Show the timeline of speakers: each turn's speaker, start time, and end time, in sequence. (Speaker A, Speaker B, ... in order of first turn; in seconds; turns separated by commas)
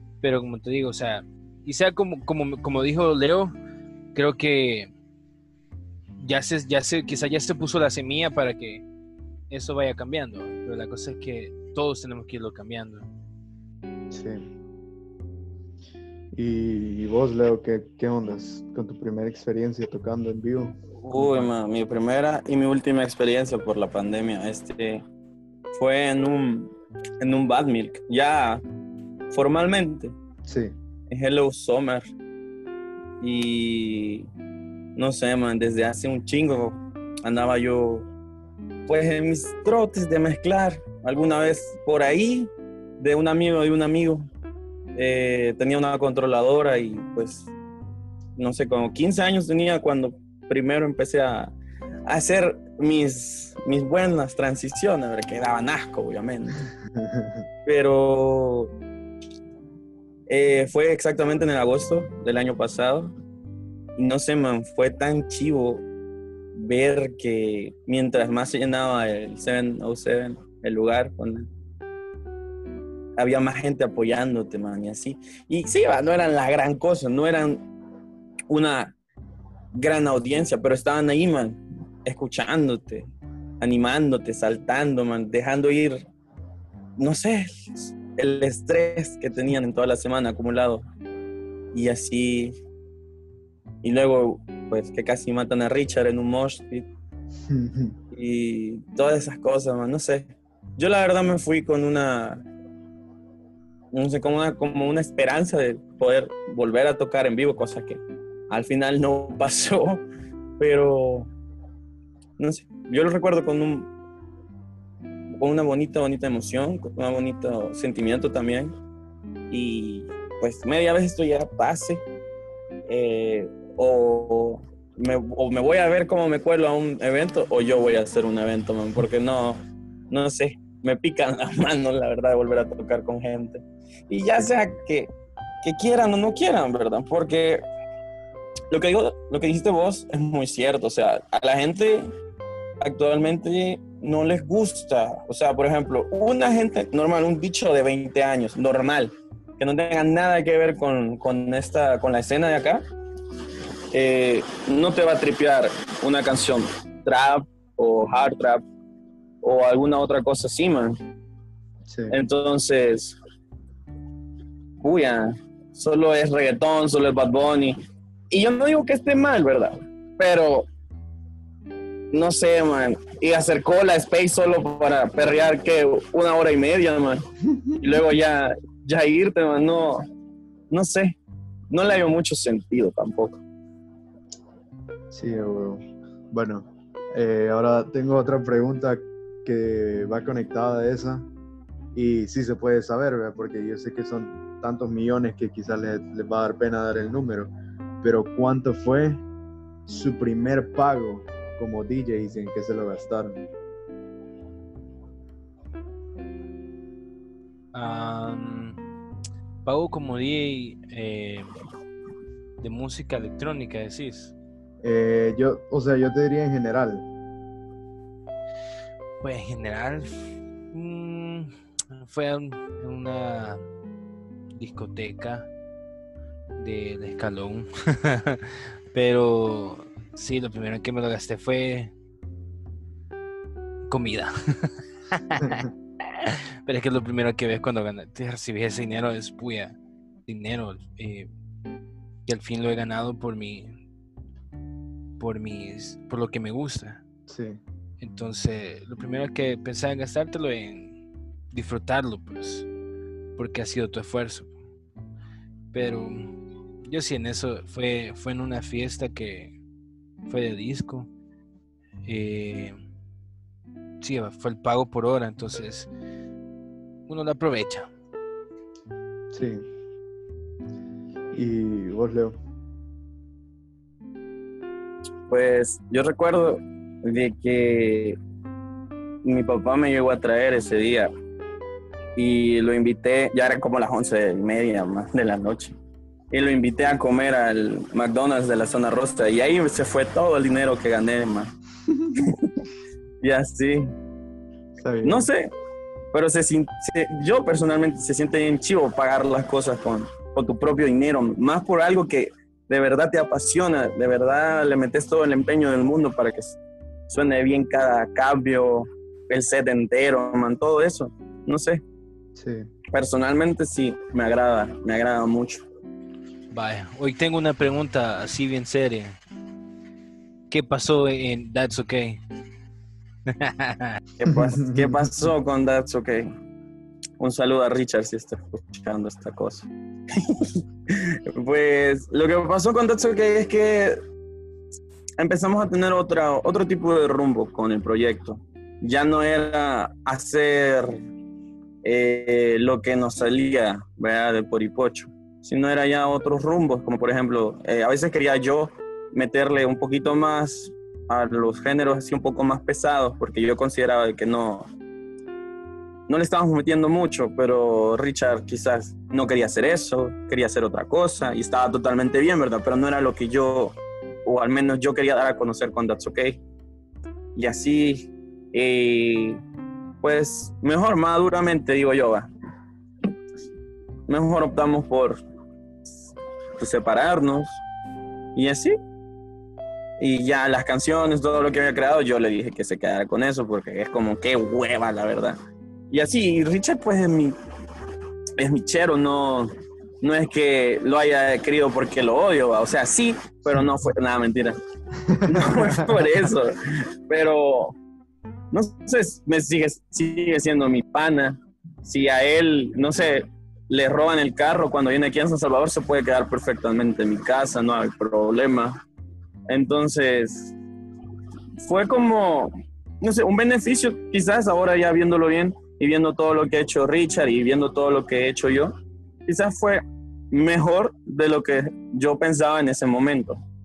Speaker A: 0.2-3.5, Speaker A: 4.1-4.9, Speaker A: 6.2-8.8, Speaker A: 9.5-13.1, Speaker B: 14.1-14.5, Speaker B: 16.3-21.5, Speaker C: 21.0-25.0, Speaker C: 25.7-28.6, Speaker C: 29.3-30.1, Speaker B: 30.4-30.8, Speaker C: 31.1-32.1, Speaker C: 33.2-34.3, Speaker C: 35.0-38.1, Speaker C: 38.9-44.3, Speaker C: 45.0-47.5, Speaker C: 48.4-51.5, Speaker C: 52.1-56.6, Speaker B: 56.9-57.5, Speaker C: 57.6-58.7, Speaker C: 60.3-63.1, Speaker C: 64.0-65.8, Speaker C: 66.5-71.5, Speaker C: 73.2-77.6, Speaker C: 78.5-78.9, Speaker C: 79.7-83.1, Speaker C: 83.6-86.1, Speaker C: 87.0-90.8, Speaker C: 91.7-92.5, Speaker C: 93.8-96.9, Speaker B: 97.5-98.0, Speaker C: 98.1-102.4, Speaker C: 103.9-110.0, Speaker C: 110.6-111.3, Speaker C: 112.4-113.9, Speaker C: 115.4-118.7, Speaker C: 119.5-122.0, Speaker C: 122.9-135.1, Speaker C: 135.6-137.6, Speaker C: 138.7-142.1, Speaker C: 142.8-152.8, Speaker C: 153.9-158.6, Speaker C: 159.4-161.0, Speaker B: 161.9-162.2, Speaker C: 162.1-163.2, Speaker C: 164.8-167.8, Speaker C: 168.3-170.7, Speaker C: 172.1-177.2, Speaker B: 177.6-178.0, Speaker C: 177.8-180.0, Speaker C: 180.7-181.2, Speaker C: 181.7-183.4, Speaker B: 185.1-191.3, Speaker B: 191.9-199.2, Speaker B: 199.8-203.4, Speaker A: 207.7-208.8, Speaker A: 209.6-211.5, Speaker A: 212.6-214.3, Speaker B: 214.8-217.1, Speaker A: 219.2-223.6, Speaker A: 224.6-225.5, Speaker A: 226.6-231.9, Speaker A: 233.9-241.3, Speaker A: 242.2-243.8, Speaker A: 245.2-247.0, Speaker B: 247.3-247.6, Speaker A: 248.0-250.9, Speaker A: 251.5-252.7, Speaker A: 253.3-254.5, Speaker A: 255.7-256.3, Speaker A: 256.9-259.6, Speaker A: 260.2-261.1, Speaker A: 262.1-262.8, Speaker A: 264.0-265.9, Speaker A: 267.1-267.9, Speaker B: 269.3-269.7, Speaker B: 271.3-272.4, Speaker C: 275.3-278.2, Speaker C: 279.2-281.1, Speaker C: 282.1-285.7, Speaker C: 286.3-291.5, Speaker C: 292.2-292.5, Speaker C: 293.2-293.9, Speaker B: 294.8-295.3, Speaker C: 295.0-295.5, Speaker C: 296.1-306.6, Speaker C: 307.1-311.8, Speaker B: 312.3-312.7, Speaker C: 312.9-315.6, Speaker A: 316.5-319.2, Speaker A: 320.5-322.2, Speaker A: 323.3-324.0, Speaker C: 324.2-326.3, Speaker B: 324.3-325.2, Speaker C: 327.2-334.0, Speaker C: 335.2-341.0, Speaker C: 341.8-354.7, Speaker C: 356.1-366.4, Speaker C: 367.3-369.4, Speaker C: 370.0-372.3, Speaker C: 374.1-375.2, Speaker C: 376.6-377.6, Speaker C: 378.3-378.7, Speaker C: 380.0-385.4, Speaker C: 385.9-387.4, Speaker C: 388.4-394.6, Speaker B: 395.1-396.1, Speaker C: 395.2-397.7, Speaker C: 398.5-408.8, Speaker C: 409.5-410.5, Speaker C: 411.6-418.7, Speaker C: 419.3-423.4